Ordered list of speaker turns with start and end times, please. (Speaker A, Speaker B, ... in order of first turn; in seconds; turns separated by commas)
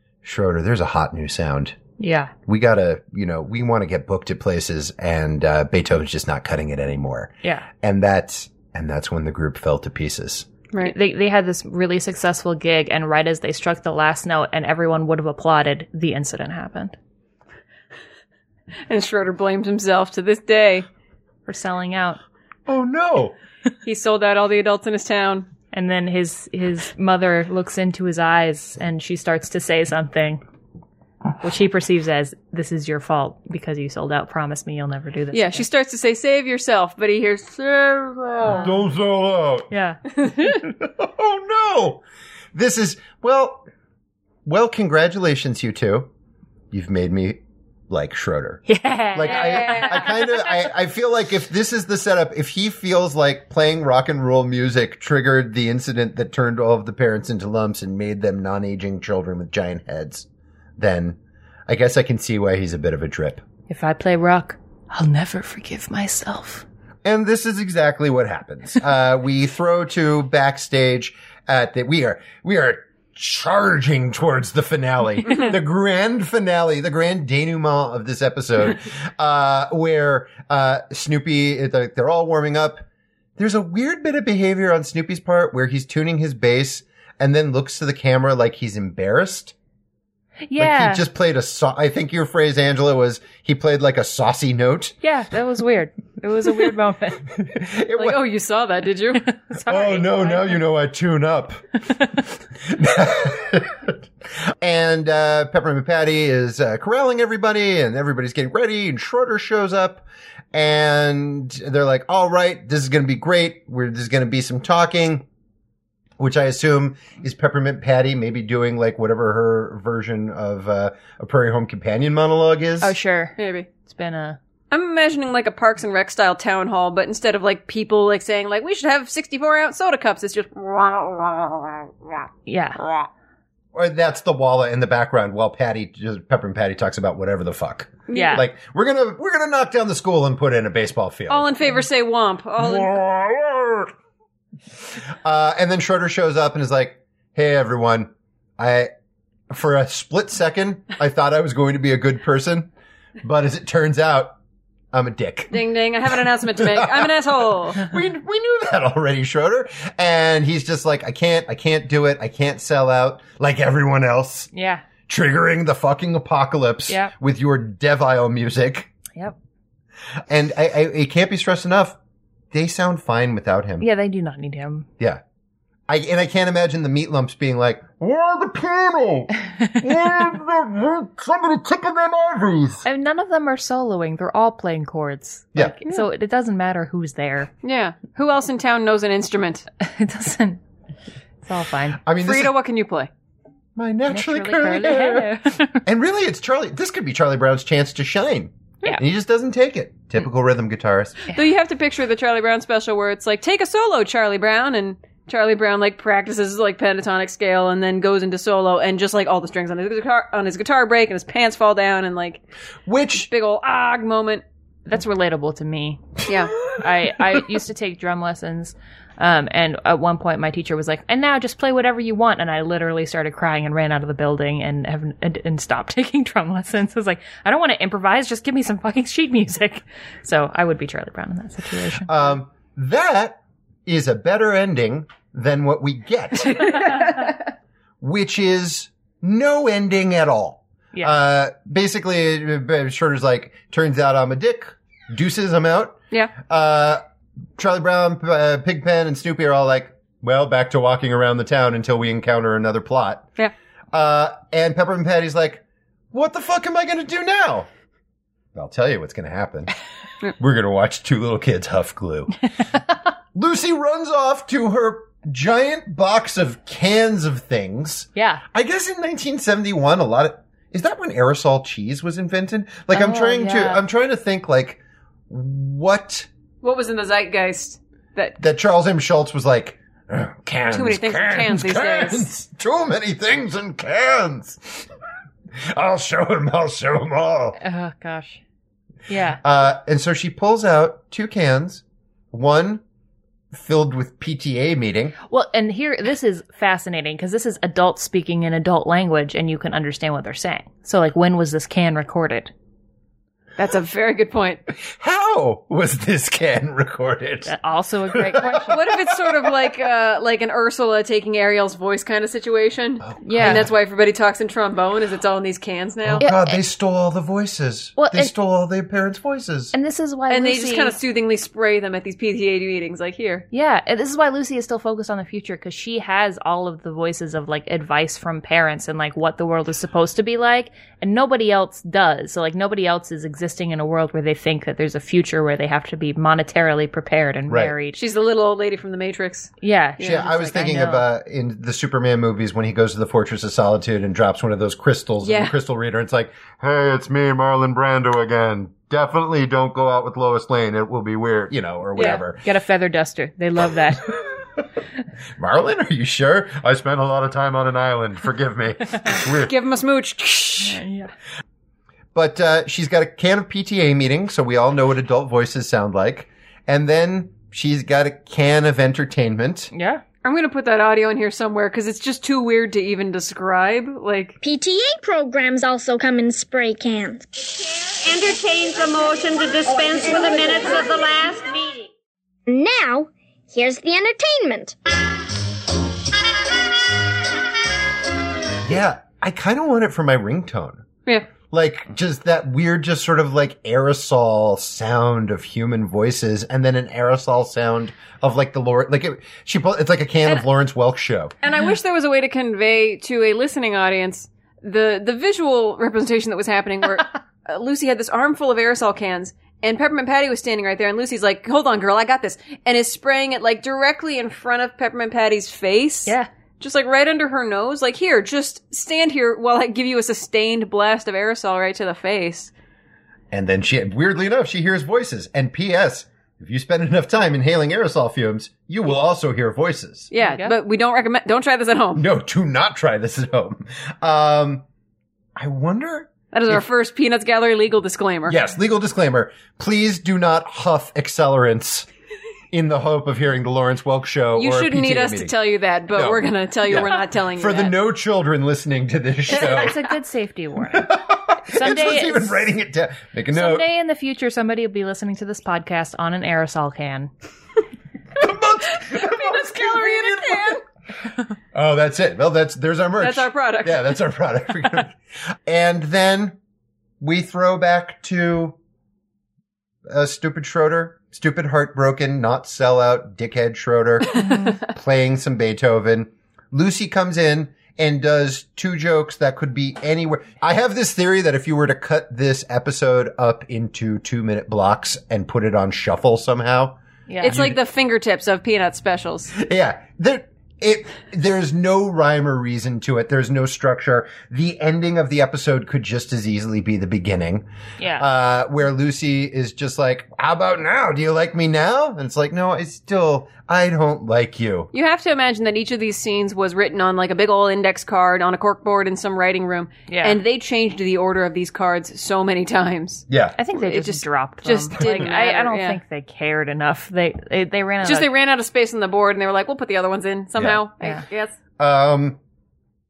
Speaker A: 0.2-1.8, Speaker B: 2.0-2.3, Speaker A: 2.5-10.5, Speaker B: 10.8-16.9, Speaker C: 18.9-20.9, Speaker B: 21.5-22.2, Speaker A: 22.7-23.3, Speaker C: 23.8-25.5, Speaker B: 25.7-30.4, Speaker B: 31.4-35.6, Speaker C: 35.3-38.7, Speaker B: 38.5-38.7, Speaker A: 38.6-39.7, Speaker B: 39.7-40.0, Speaker A: 40.4-42.0, Speaker A: 42.5-43.6, Speaker A: 44.4-46.1, Speaker A: 46.7-60.3, Speaker B: 48.7-50.5, Speaker C: 49.2-50.1, Speaker A: 60.8-63.4, Speaker B: 63.7-66.6, Speaker A: 67.0-82.8, Speaker A: 83.4-89.5, Speaker B: 90.5-91.0, Speaker A: 90.6-95.0, Speaker B: 95.0-97.2, Speaker A: 97.4-98.2, Speaker C: 98.0-99.2, Speaker B: 99.2-100.6, Speaker A: 99.7-101.6, Speaker A: 102.6-115.2, Speaker A: 116.2-123.0, Speaker B: 122.8-124.4, Speaker C: 123.4-123.7, Speaker C: 124.7-132.3, Speaker B: 132.4-132.8, Speaker C: 132.8-133.1, Speaker A: 133.7-141.5, Speaker C: 138.1-138.4, Speaker B: 138.1-138.4, Speaker C: 141.3-143.0, Speaker A: 142.6-143.9, Speaker A: 145.2-148.9, Speaker A: 149.5-152.7, Speaker A: 153.2-154.4, Speaker A: 154.9-155.6, Speaker C: 155.5-157.8, Speaker A: 156.1-164.5, Speaker B: 164.5-164.8, Speaker A: 165.1-168.9, Speaker B: 166.9-167.1, Speaker A: 170.3-171.9, Speaker A: 172.5-173.9, Speaker B: 173.8-174.9, Speaker A: 175.9-182.8, Speaker B: 182.8-187.5, Speaker C: 187.6-189.7, Speaker B: 189.8-190.6, Speaker B: 191.4-192.0, Speaker A: 192.0-192.5, Speaker C: 192.2-193.1, Speaker A: 193.8-201.2, Speaker B: 194.1-195.8, Speaker C: 201.3-212.4, Speaker A: 212.8-213.3, Speaker C: 213.2-214.4, Speaker B: 214.8-216.0, Speaker C: 216.3-216.5, Speaker B: 216.7-232.2, Speaker A: 232.1-237.0, Speaker C: 236.6-237.1, Speaker A: 238.0-247.0, Speaker A: 247.6-253.3, Speaker A: 253.9-257.7, Speaker A: 258.5-259.7, Speaker A: 260.4-262.4, Speaker A: 263.3-276.3, Speaker B: 268.1-268.4, Speaker B: 272.9-273.8, Speaker C: 276.6-278.4, Speaker A: 278.4-284.9, Speaker C: 280.7-282.3, Speaker A: 285.6-287.6, Speaker B: 287.6-288.4, Speaker B: 289.1-289.4, Speaker A: 289.4-292.8, Speaker A: 293.5-295.1, Speaker B: 295.3-302.5, Speaker C: 303.6-304.6, Speaker A: 304.8-307.5, Speaker B: 307.4-308.8, Speaker A: 308.1-309.5, Speaker C: 308.7-316.3, Speaker A: 313.0-313.7, Speaker B: 313.2-313.6, Speaker A: 316.0-319.7, Speaker B: 316.2-316.6, Speaker B: 318.0-318.3, Speaker B: 319.7-320.9, Speaker C: 320.3-323.4, Speaker B: 323.5-338.0, Speaker A: 337.5-337.7, Speaker C: 337.9-340.2, Speaker B: 339.6-341.0, Speaker A: 340.0-352.4, Speaker C: 345.2-345.5, Speaker B: 351.9-354.2, Speaker A: 355.4-359.5, Speaker C: 359.2-360.8, Speaker B: 360.6-361.1, Speaker A: 362.1-369.7, Speaker B: 369.7-370.0, Speaker C: 370.2-374.4, Speaker D: 374.4-377.3, Speaker E: 377.5-381.9, Speaker D: 382.5-384.7, Speaker A: 388.6-390.9, Speaker A: 391.5-401.3, Speaker C: 401.4-422.5, Speaker A: 423.3-430.1, Speaker C: 430.1-432.0, Speaker B: 430.2-430.5, Speaker A: 431.9-434.6, Speaker A: 435.4-436.6, Speaker C: 436.3-438.4, Speaker A: 438.3-441.9, Speaker A: 442.5-445.3, Speaker C: 444.3-447.8, Speaker A: 445.9-449.8, Speaker B: 449.3-452.4, Speaker A: 450.7-453.7, Speaker B: 453.3-457.1, Speaker A: 458.2-460.6, Speaker C: 458.8-460.6, Speaker A: 461.5-466.4, Speaker C: 463.0-463.9, Speaker A: 467.0-468.6, Speaker A: 469.9-487.6, Speaker B: 487.1-487.4, Speaker C: 487.2-489.3, Speaker A: 489.3-504.7, Speaker B: 497.8-498.1, Speaker C: 504.7-515.8, Speaker B: 509.9-510.2, Speaker A: 513.1-513.4, Speaker B: 513.4-518.1, Speaker A: 514.8-515.0, Speaker C: 517.8-521.3, Speaker A: 521.6-522.2